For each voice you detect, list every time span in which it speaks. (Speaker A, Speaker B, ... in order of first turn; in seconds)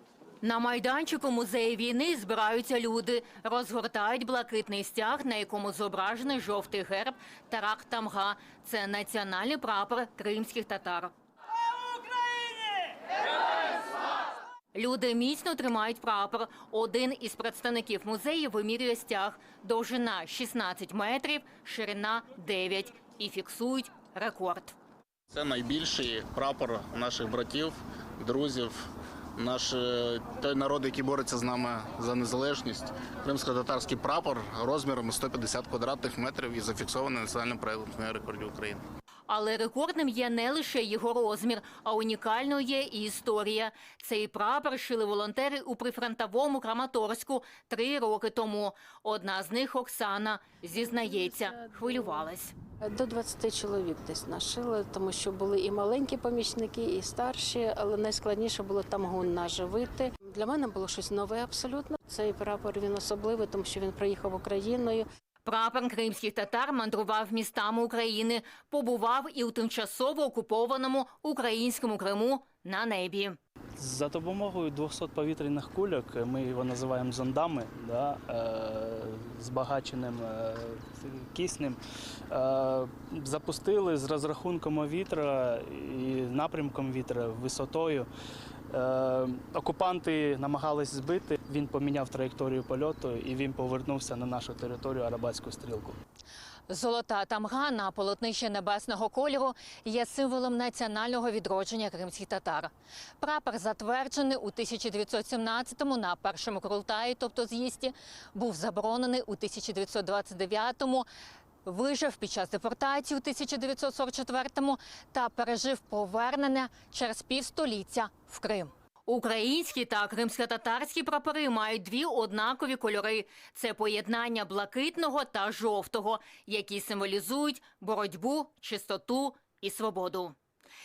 Speaker A: 0.4-11.1, 14.7-24.8, 39.3-52.5, 65.4-73.4, 96.7-111.1, 111.7-130.4
Speaker B: 25.3-28.8, 29.4-38.8
Speaker C: 51.1-51.9, 52.8-65.0
Speaker D: 73.8-88.1, 88.7-96.0